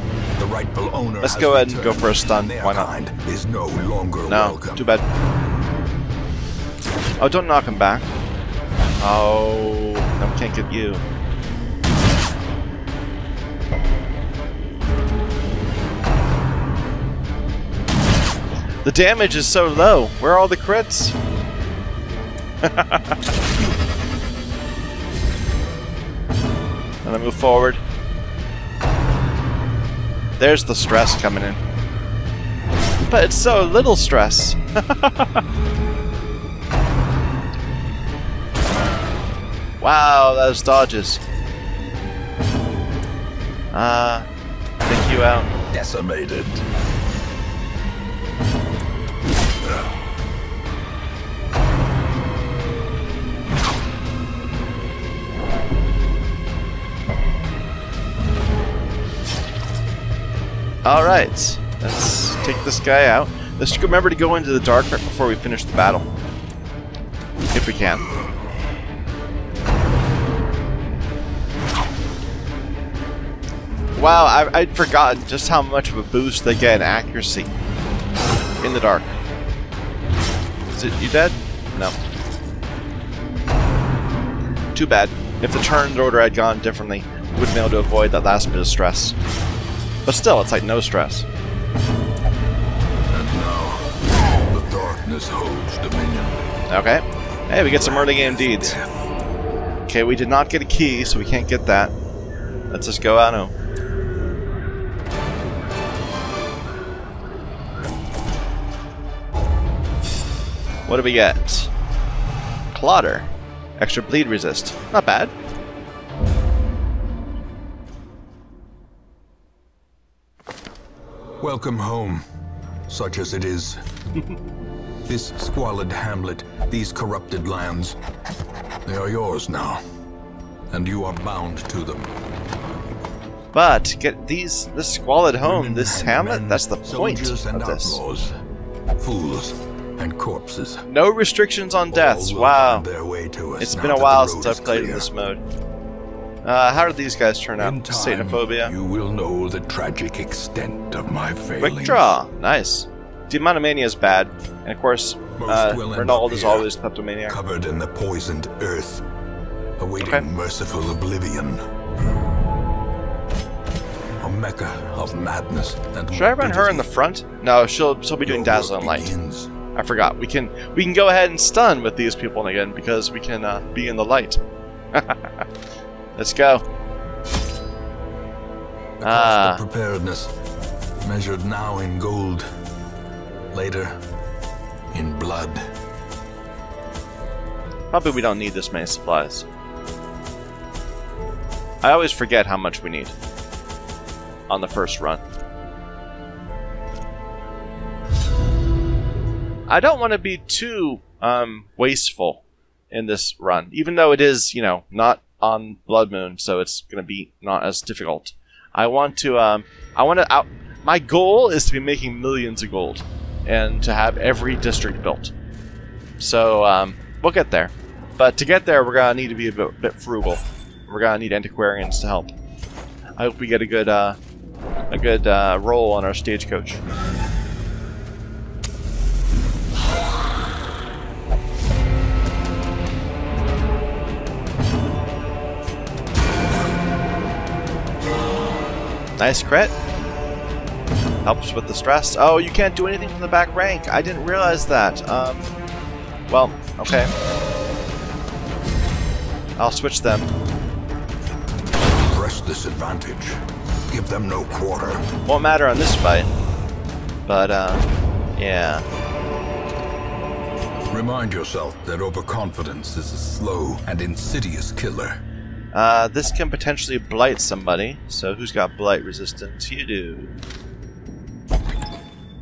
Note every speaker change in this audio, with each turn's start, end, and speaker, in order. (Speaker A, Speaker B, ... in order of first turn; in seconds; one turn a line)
Speaker A: 0.4-4.8
Speaker B: 1.2-2.9
Speaker B: 4.3-5.0
Speaker B: 7.2-8.1
Speaker B: 9.0-11.0
Speaker B: 18.8-21.1
Speaker B: 22.6-23.2
Speaker B: 27.0-27.8
Speaker B: 30.4-31.6
Speaker B: 33.0-35.4
Speaker B: 39.8-41.2
Speaker B: 43.7-44.3
Speaker B: 44.8-45.5
Speaker A: 45.7-46.6
Speaker A: 49.6-49.9
Speaker B: 60.8-66.1
Speaker B: 67.5-68.1
Speaker B: 74.0-77.5
Speaker B: 78.6-79.1
Speaker B: 80.7-82.0
Speaker B: 84.7-89.2
Speaker B: 90.0-91.3
Speaker A: 93.1-93.9
Speaker A: 94.4-96.4
Speaker B: 96.7-98.8
Speaker A: 97.7-99.1
Speaker B: 99.9-101.9
Speaker B: 102.7-103.5
Speaker B: 110.9-111.7
Speaker B: 112.7-115.3
Speaker A: 121.4-122.2
Speaker A: 122.9-123.8
Speaker A: 125.0-128.0
Speaker A: 128.8-129.8
Speaker A: 130.7-132.1
Speaker B: 133.5-138.0
Speaker A: 135.4-138.3
Speaker A: 139.0-140.8
Speaker B: 140.9-142.8
Speaker A: 141.9-145.1
Speaker B: 143.6-145.4
Speaker B: 146.4-148.7
Speaker A: 147.6-152.1
Speaker B: 151.6-157.4
Speaker A: 155.4-156.7
Speaker A: 157.3-159.0
Speaker A: 159.8-161.6
Speaker B: 160.0-160.2
Speaker A: 164.2-166.9
Speaker B: 166.1-169.1
Speaker A: 168.2-169.5
Speaker B: 169.7-174.4
Speaker B: 174.9-175.3
Speaker B: 176.1-176.6
Speaker A: 179.0-180.3
Speaker B: 179.0-179.6
Speaker A: 181.0-182.4
Speaker A: 183.5-183.9
Speaker A: 184.9-185.6
Speaker B: 187.9-189.4
Speaker B: 191.8-193.1
Speaker B: 194.5-195.2
Speaker B: 199.7-215.3
Speaker B: 216.2-222.3
Speaker B: 223.2-224.2
Speaker B: 224.9-226.8
Speaker B: 239.2-239.7
Speaker B: 241.2-245.5
Speaker B: 246.3-247.1
Speaker B: 249.6-250.3
Speaker A: 252.0-255.1
Speaker B: 255.2-256.3
Speaker B: 257.3-258.9
Speaker A: 260.9-265.2
Speaker B: 265.7-270.3